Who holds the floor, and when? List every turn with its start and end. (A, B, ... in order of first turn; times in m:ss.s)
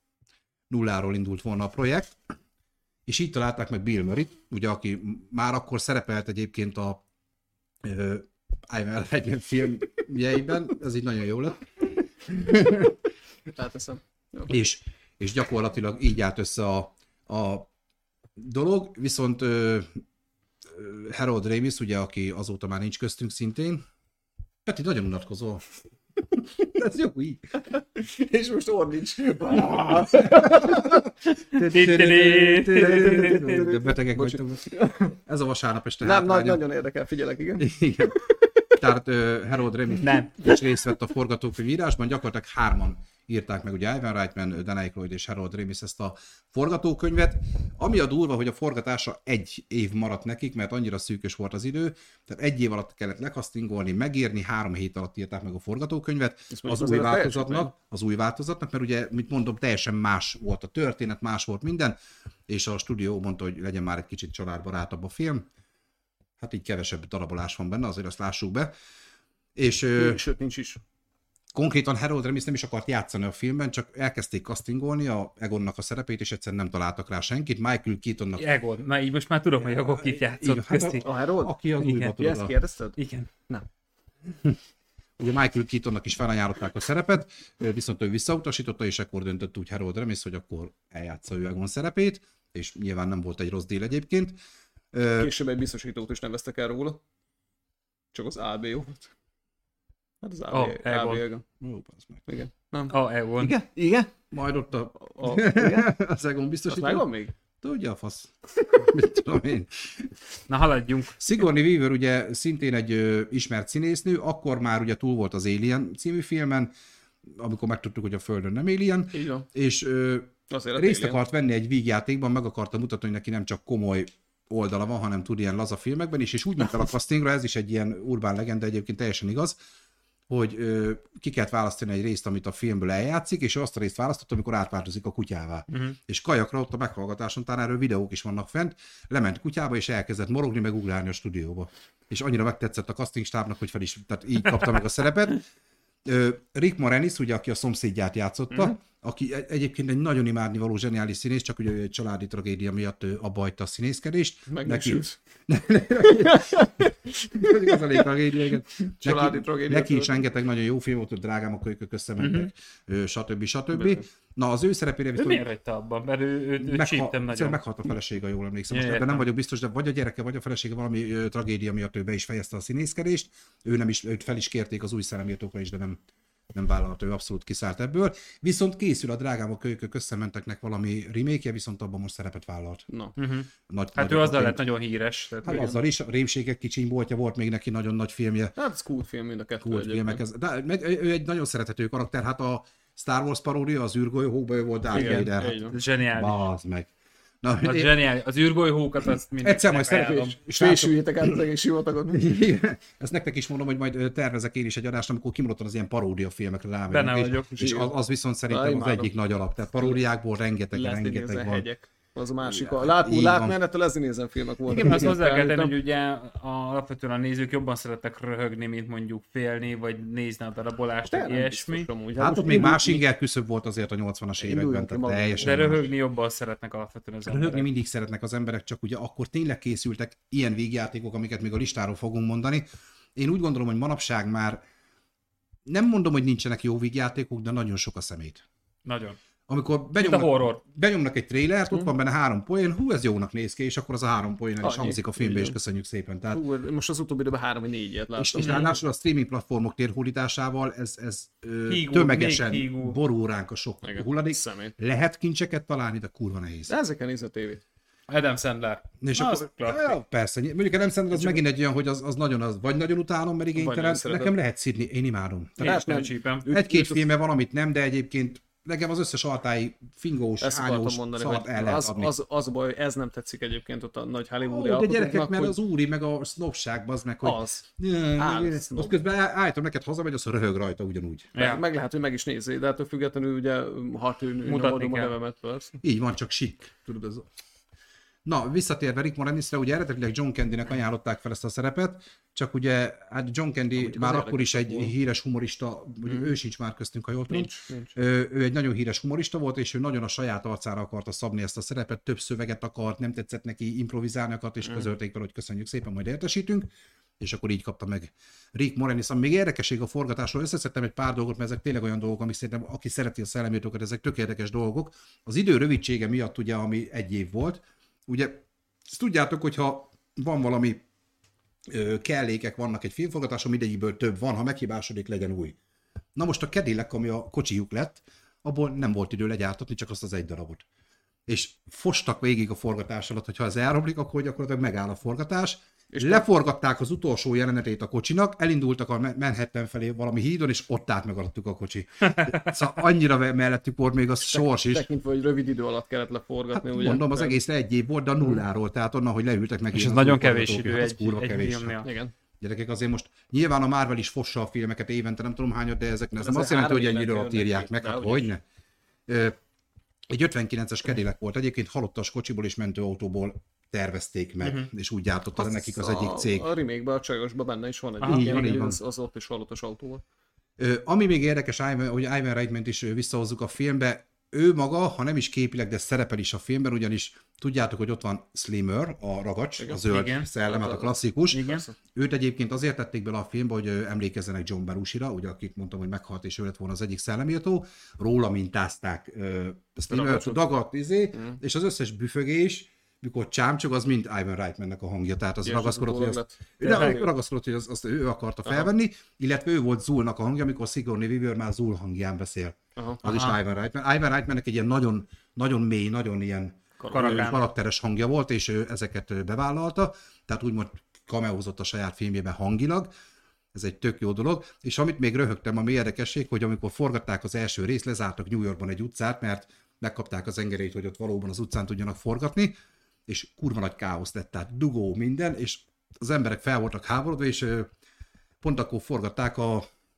0:00.7-0:02.2 A
0:03.1-0:07.0 A
0:07.8-0:11.7 A
0:12.2-0:13.0 A
0:13.5-0:14.6 B
0:14.5-0:17.7 A
0:18.4-0:20.0 A
0:20.7-0:23.8 A
0:24.6-0:25.6 A
0:26.4-0:27.5 A
0:27.8-0:31.0 B
0:30.1-0:31.0 A
0:31.5-0:34.7 A
0:31.6-0:33.4 C
0:32.8-0:35.2 B
0:35.2-0:36.6 A
0:36.0-0:37.7 B
0:37.6-1:02.0 A
0:40.0-0:40.5 C
0:56.5-0:57.7 B
1:02.5-1:05.4 A
1:06.4-1:08.7 A
1:09.6-1:10.2 A
1:10.0-1:10.8 B
1:11.5-1:18.4 A
1:18.4-1:21.0 C
1:19.9-1:22.5 A
1:21.0-1:23.0 B
1:21.8-1:22.1 C
1:23.0-1:23.3 C
1:25.2-1:34.4 A
1:34.9-1:35.3 A
1:35.2-1:37.0 B
1:38.1-1:39.1 B
1:40.2-1:41.4 B
1:40.5-1:41.2 C
1:41.6-1:42.2 A
1:42.3-1:44.1 B
1:42.9-1:43.5 C
1:44.3-1:47.0 A
1:45.1-1:45.9 B
1:46.7-1:47.3 B
1:47.6-1:50.1 A
1:50.5-1:51.2 C
1:51.2-1:56.7 A
1:57.3-2:09.6 A
1:59.1-1:59.4 B
2:00.5-2:01.2 B
2:10.3-2:25.4 A
2:26.0-2:45.4 A
2:28.5-2:28.8 B
2:34.5-2:35.2 B
2:36.0-2:38.1 B
2:38.9-2:40.2 B
2:42.2-2:42.5 C
2:43.7-2:44.0 B
2:45.2-2:47.6 C
2:46.6-2:56.0 A
2:48.7-2:49.3 C
2:56.5-3:02.9 A
3:02.9-3:03.1 B
3:03.2-3:05.7 C
3:03.7-3:04.6 A
3:05.4-3:08.6 A
3:05.5-3:05.8 B
3:08.6-3:10.2 B
3:09.6-3:16.9 A
3:14.9-3:15.8 B
3:14.9-3:16.4 C
3:17.4-3:17.9 A
3:17.6-3:20.4 C
3:19.4-3:21.4 A
3:19.9-3:22.4 B
3:22.1-3:31.7 A
3:26.9-3:27.9 C
3:27.6-3:27.9 B
3:28.5-3:29.1 B
3:30.7-3:35.7 B
3:32.4-3:33.6 A
3:34.7-3:41.9 C
3:41.1-3:43.0 B
3:42.2-3:45.9 A
3:44.4-3:45.7 B
3:45.4-3:47.7 C
3:47.2-3:54.6 A
3:55.6-3:58.4 A
3:58.8-3:59.2 C
3:59.5-4:06.4 A
4:00.0-4:00.6 C
4:04.6-4:05.6 B
4:06.3-4:08.7 B
4:08.1-4:16.7 A
4:08.4-4:08.7 C
4:11.7-4:13.0 C
4:13.8-4:14.7 B
4:16.7-4:17.6 B
4:18.1-4:20.0 C
4:19.0-4:25.8 A
4:21.1-4:21.4 B
4:23.5-4:24.3 B
4:25.6-4:26.5 C
4:25.6-4:27.1 B
4:26.5-4:32.1 A
4:30.4-4:35.6 B
4:34.4-4:41.3 A
4:37.2-4:37.6 B
4:38.2-4:39.0 B
4:41.3-4:41.6 C
4:41.4-4:45.8 B
4:44.4-4:45.1 C
4:45.8-4:47.2 A
4:48.2-5:06.7 A
4:53.8-4:54.9 B
4:56.0-4:56.3 B
4:57.3-4:57.9 B
5:07.2-5:20.8 A
5:21.7-5:25.6 A
5:26.2-5:30.6 A
5:31.3-5:44.9 A
5:35.9-5:36.2 B
5:42.0-5:42.5 C
5:44.3-5:47.4 B
5:46.5-5:51.8 A
5:49.7-5:51.9 C
5:51.8-5:52.1 B
5:52.4-5:58.4 A
5:56.2-5:58.3 B
5:59.1-5:59.3 A
6:00.1-6:06.5 A
6:04.4-6:04.7 C
6:05.4-6:10.0 B
6:08.0-6:08.5 C
6:08.0-6:08.8 A
6:10.6-6:52.9 A
6:19.6-6:19.8 B
6:19.8-6:20.3 C
6:20.4-6:21.7 B
6:21.3-6:21.6 C
6:29.9-6:30.5 B
6:31.1-6:31.4 B
6:35.4-6:37.1 B
6:36.6-6:37.0 C
6:42.8-6:43.0 B
6:43.1-6:43.4 C
6:46.8-6:47.4 B
6:46.9-6:47.4 C
6:53.5-7:02.6 A
7:03.1-7:07.7 A
7:08.4-7:09.7 A